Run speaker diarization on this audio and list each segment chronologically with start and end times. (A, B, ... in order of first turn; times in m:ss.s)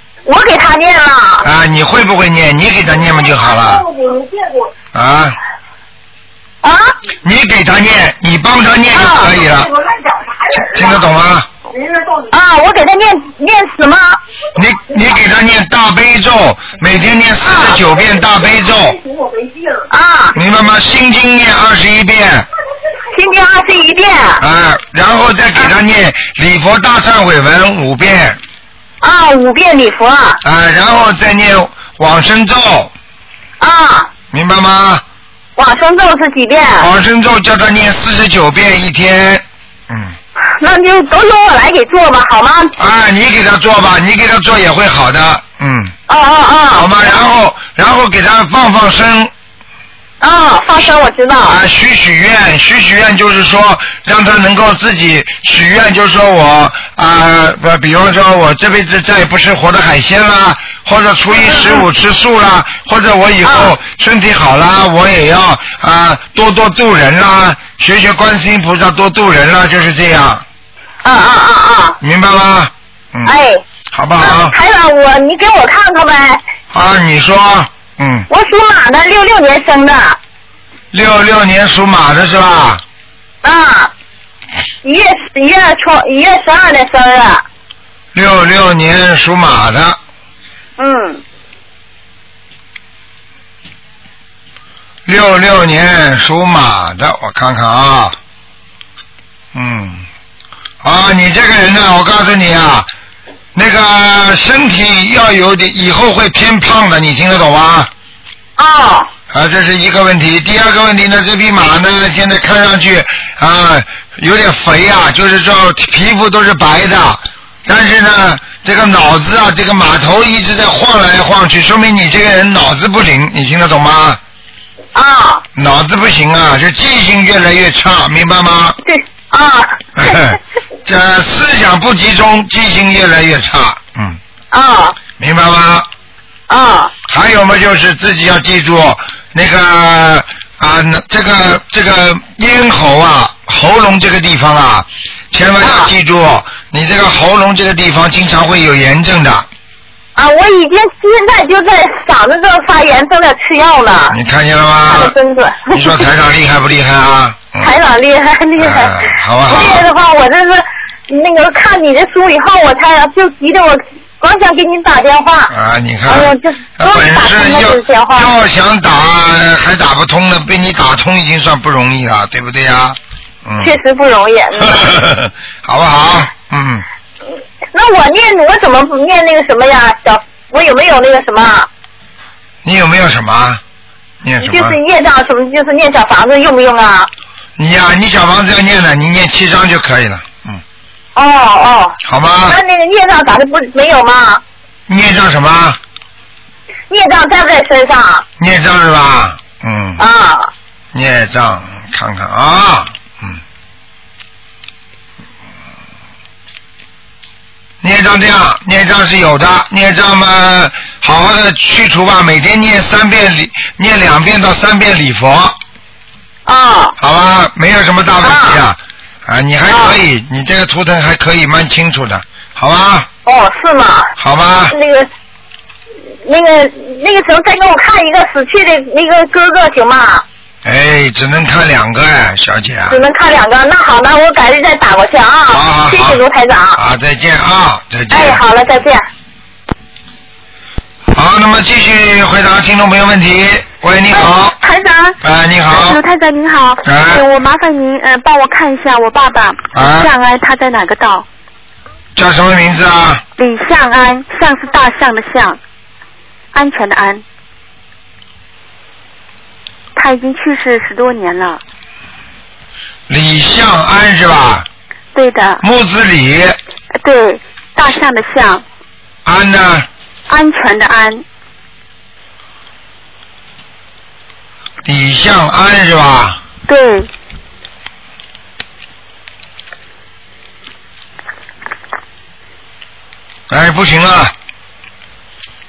0:00.2-0:01.5 A
0:01.4-0:03.8 B
0:03.6-0:04.5 A
0:04.9-0:05.4 B
0:06.6-0:06.9 A
0:07.2-0:09.7 B
0:08.9-0:09.9 A
0:10.5-0:11.5 B
0:10.6-0:10.9 A
0:12.0-0:14.2 A
0:14.6-0:19.0 B
0:17.4-0:17.9 A
0:19.8-0:20.4 A
0:20.3-0:22.5 B
0:23.1-0:24.4 A
0:24.4-0:28.4 B
0:29.0-0:30.4 A
0:30.4-0:32.9 B
0:33.6-0:34.1 A
0:34.3-0:35.0 B
0:35.6-0:36.9 A
0:36.8-0:40.2 B
0:40.6-0:42.7 A
0:42.8-0:45.9 B
0:46.1-0:47.1 A
0:46.7-0:49.3 B
0:50.2-0:51.6 A
0:51.4-1:10.4 B
1:01.3-1:01.8 A
1:03.4-1:03.7 A
1:11.0-1:12.0 A
1:12.0-1:13.3 B
1:13.2-1:13.6 A
1:13.9-1:14.5 B
1:14.2-1:16.4 A
1:16.7-1:18.3 B
1:18.3-1:20.2 A
1:20.9-1:22.8 B
1:23.4-1:23.9 A
1:24.8-1:27.4 A
1:28.1-1:30.0 B
1:30.8-1:31.2 A
1:35.0-1:38.2 B
1:39.5-1:40.0 B
1:40.8-1:42.9 B
1:43.5-1:47.9 B
1:48.6-1:49.1 A
1:49.3-2:04.2 B
2:04.9-2:05.4 A
2:05.5-2:08.8 B
2:08.8-2:10.1 A
2:10.0-2:14.2 B
2:14.5-2:15.0 A
2:15.2-2:15.9 B
2:16.5-2:16.9 A
2:17.1-2:29.5 B
2:25.6-2:25.9 A
2:30.2-2:34.2 A
2:34.1-2:35.1 B
2:34.9-2:36.1 A
2:35.7-2:37.7 B
2:37.6-2:45.5 A
2:38.6-2:39.9 B
2:45.5-2:53.7 B
2:46.1-2:48.3 A
2:53.6-2:55.0 A
2:54.6-2:56.8 B
2:57.7-3:01.7 A
3:02.6-3:03.6 B
3:04.2-3:04.8 B
3:04.4-3:07.1 A
3:07.6-3:10.6 B
3:11.1-3:14.4 A
3:12.0-3:12.6 B
3:14.9-3:15.8 B
3:16.9-3:18.2 A
3:18.4-3:20.0 B
3:20.0-3:20.5 A
3:20.9-3:23.4 B
3:27.8-3:35.6 B
3:36.4-3:37.0 A
3:37.0-3:43.1 B
3:38.2-3:38.6 A
3:39.7-3:40.0 A
3:43.2-3:44.1 A
3:44.2-3:44.7 B
3:44.7-3:45.1 A
3:46.2-3:50.2 A
3:50.6-3:53.0 B
3:52.9-3:56.8 A
3:55.5-3:56.2 B
3:56.7-3:58.4 B
3:58.1-3:59.0 A
4:01.1-4:04.6 B
4:04.2-4:05.1 C
4:05.2-4:06.0 B
4:05.7-4:11.2 C
4:06.8-4:07.2 B
4:09.7-4:10.1 B
4:12.2-4:13.2 B
4:13.4-4:15.6 C
4:16.5-4:17.2 C
4:19.9-4:21.6 C
4:23.1-4:24.6 B
4:25.1-4:25.6 C
4:25.6-4:26.6 B
4:27.0-4:28.6 C
4:29.2-4:29.9 B
4:30.3-4:31.2 C
4:34.8-4:36.4 B
4:36.7-4:37.1 C
4:43.5-4:44.3 B